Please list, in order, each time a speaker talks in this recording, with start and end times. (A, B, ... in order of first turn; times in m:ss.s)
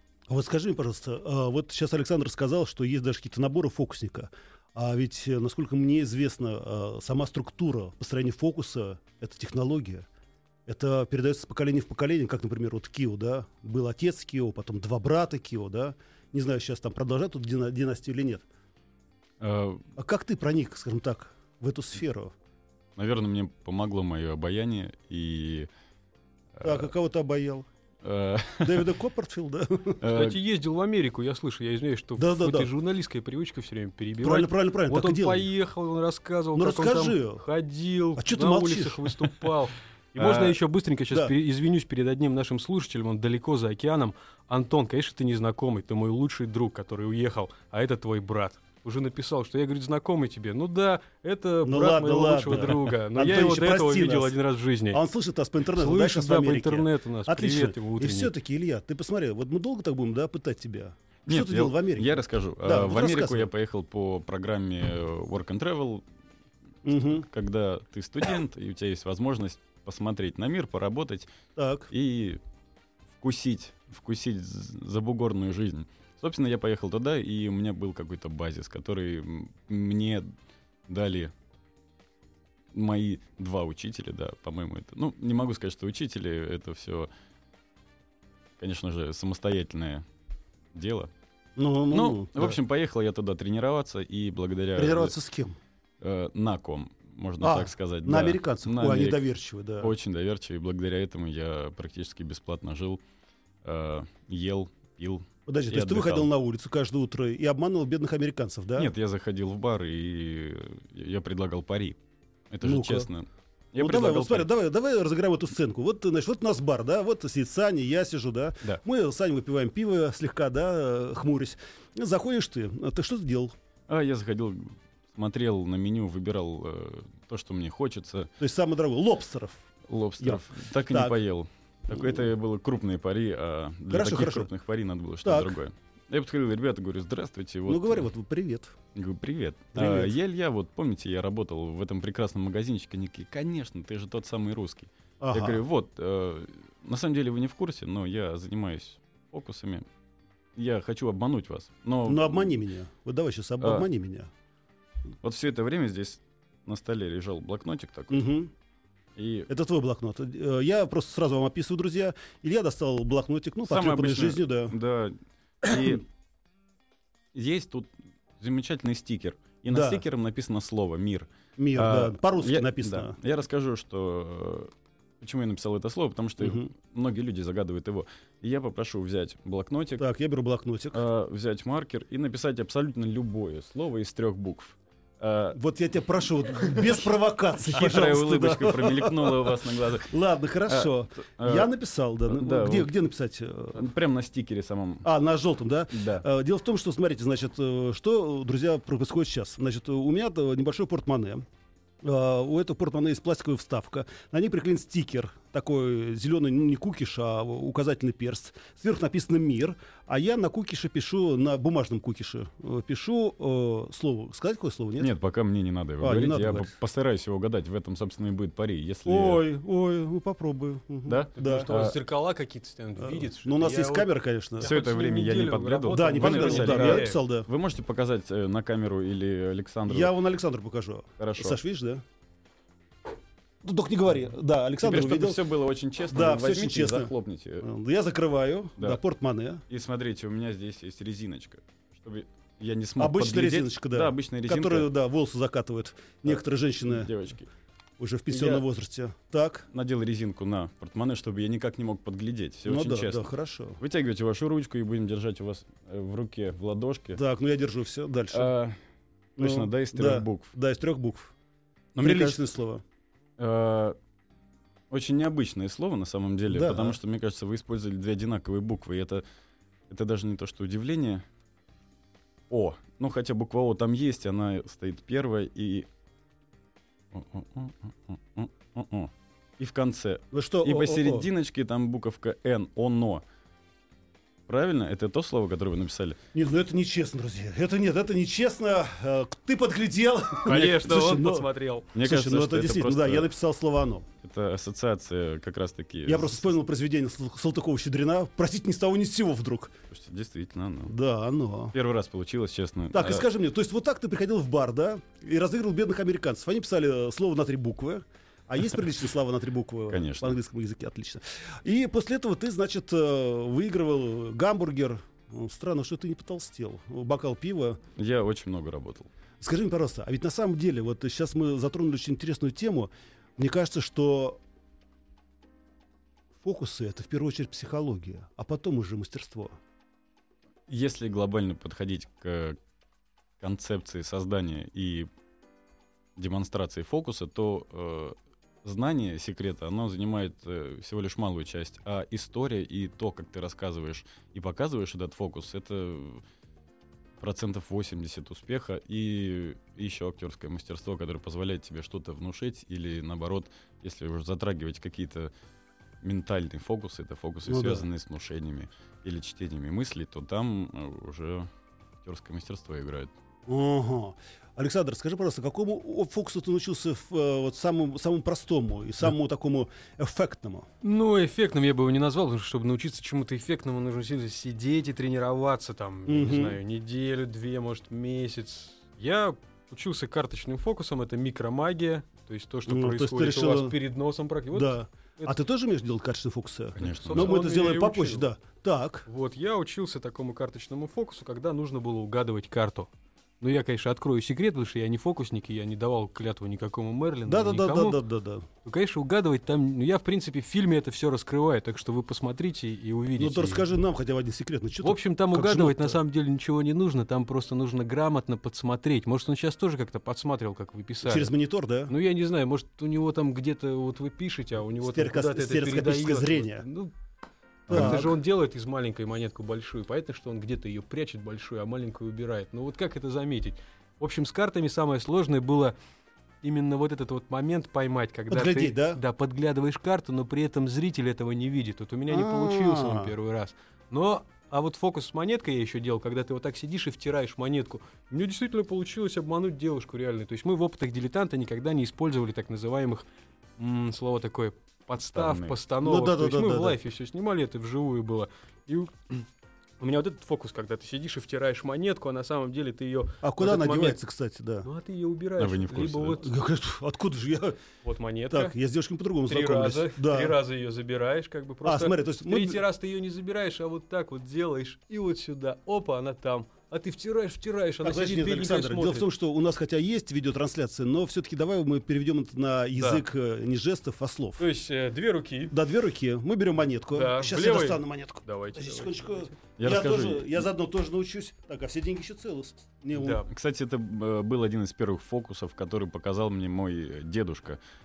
0:00.3-0:10.0 A
0:10.7-0:18.4 A
0:19.4-0:19.8 B
0:20.0-0:22.3 A
0:23.0-0:25.7 B
0:26.6-0:26.9 B
0:26.6-0:27.7 A
0:28.0-0:28.9 B
0:28.6-0:30.0 A
0:30.0-0:30.4 B
0:30.0-0:55.0 C
0:32.2-0:32.7 A
0:34.2-0:35.5 A
0:36.5-0:37.4 A
0:38.2-0:39.1 A
0:40.2-0:40.6 B
0:51.6-0:54.3 A
0:54.9-1:03.5 A
0:55.8-0:58.3 C
1:01.3-1:06.0 B
1:06.8-1:07.2 A
1:06.9-1:11.3 B
1:11.6-1:11.9 A
1:11.9-1:12.4 B
1:13.2-1:20.3 B
1:20.9-1:21.3 B
1:22.7-1:27.1 B
1:28.6-1:30.0 B
1:30.7-1:31.1 B
1:31.6-1:32.6 A
1:31.9-1:35.2 B
1:34.8-1:35.6 A
1:36.0-1:39.2 B
1:37.4-1:39.9 A
1:39.8-1:43.0 B
1:43.6-1:46.3 B
1:45.5-1:48.9 A
1:48.8-1:52.0 B
1:52.5-1:54.5 B
1:52.6-1:53.1 A
1:53.8-2:03.5 A
2:03.9-2:08.3 B
2:08.4-2:09.6 A
2:09.9-2:18.1 B
2:10.2-2:11.2 A
2:11.9-2:12.2 A
2:13.9-2:14.5 A
2:15.2-2:15.5 A
2:17.7-2:18.7 A
2:18.9-2:29.8 B
2:19.7-2:20.1 A
2:25.2-2:25.6 A
2:30.6-2:32.5 B
2:32.0-2:34.3 A
2:33.6-2:33.8 B
2:35.2-2:38.2 B
2:38.1-2:38.5 A
2:39.2-2:39.5 B
2:39.5-2:44.7 A
2:43.7-2:46.0 B
2:45.6-2:46.0 A
2:47.3-3:00.0 B
2:49.7-2:50.0 A
2:51.6-2:53.1 A
2:56.4-2:56.7 A
3:00.0-3:01.0 A
3:00.9-3:05.6 B
3:05.5-3:13.8 A
3:06.6-3:07.0 B
3:07.6-3:10.1 B
3:10.7-3:11.7 B
3:12.3-3:12.9 B
3:13.7-3:15.1 B
3:15.0-3:21.4 A
3:15.9-3:16.2 B
3:22.0-3:35.1 A
3:35.0-3:39.4 B
3:36.0-3:36.7 A
3:39.0-3:41.7 A
3:41.0-3:42.0 B
3:41.4-3:47.2 C
3:43.0-3:44.8 A
3:44.6-3:50.2 B
3:45.9-3:47.5 A
3:49.9-3:52.0 A
3:51.2-3:51.6 B
3:53.6-3:55.4 A
3:54.8-3:57.6 B
3:56.1-3:57.1 A
3:57.6-3:59.6 A
3:59.7-4:04.9 B
4:03.0-4:07.1 A
4:06.2-4:07.5 B
4:08.0-4:09.6 A
4:08.3-4:08.6 B
4:09.7-4:17.2 B
4:12.6-4:13.8 A
4:17.1-4:18.5 A
4:18.3-4:18.8 B
4:19.4-4:20.5 B
4:19.4-4:21.3 A
4:21.9-4:22.4 B
4:22.0-4:22.8 A
4:23.4-4:24.0 B
4:24.9-4:29.2 B
4:26.5-4:27.0 A
4:29.9-4:31.2 B
4:32.5-4:35.9 B
4:37.1-4:43.2 B
4:40.3-4:41.3 A
4:44.5-4:46.2 B
4:46.3-4:54.1 A
4:50.4-4:51.9 C
4:51.9-4:53.3 B
4:54.2-4:56.5 B
4:56.0-4:59.7 A
4:59.9-5:00.9 B
5:00.9-5:01.7 A
5:01.7-5:03.2 B
5:02.9-5:17.8 A
5:09.9-5:10.4 B
5:18.0-5:19.1 B
5:19.4-5:24.4 A
5:26.4-5:29.5 A
5:30.7-5:32.6 B
5:33.4-5:35.1 B
5:36.2-5:46.2 B
5:47.2-5:55.3 B
5:56.0-6:01.5 B
5:57.5-5:57.8 A
6:02.0-6:03.1 B
6:03.5-6:10.7 A
6:10.8-6:25.3 C
6:16.1-6:16.6 A
6:22.7-6:23.8 A
6:24.5-6:29.0 A
6:26.8-6:27.4 B
6:27.1-6:28.3 C
6:29.0-6:32.9 C
6:33.4-6:38.0 C
6:37.3-6:38.5 A
6:38.6-6:43.6 C
6:43.2-6:46.0 A
6:44.8-6:51.3 C
6:51.0-6:51.9 A
6:51.9-6:56.9 C
6:54.8-6:56.6 A
6:57.7-7:05.7 C
6:57.7-6:58.1 A
7:06.4-7:23.0 C
7:08.3-7:09.0 A
7:12.1-7:13.1 A
7:23.6-7:29.2 C
7:25.1-7:25.6 B
7:25.8-7:26.8 A
7:29.8-7:34.0 C
7:33.2-7:34.7 A
7:34.6-7:36.3 C
7:35.4-7:36.2 B
7:36.2-7:37.6 A
7:37.8-7:38.5 C
7:38.3-7:40.4 A
7:39.3-7:49.1 C
7:41.6-7:42.6 A
7:47.8-7:54.4 A
7:52.8-7:53.0 C
7:54.4-7:55.6 C
7:55.5-8:03.2 A
7:56.9-7:59.3 C
7:59.6-8:00.4 B
8:02.9-8:03.3 C
8:03.3-8:07.6 B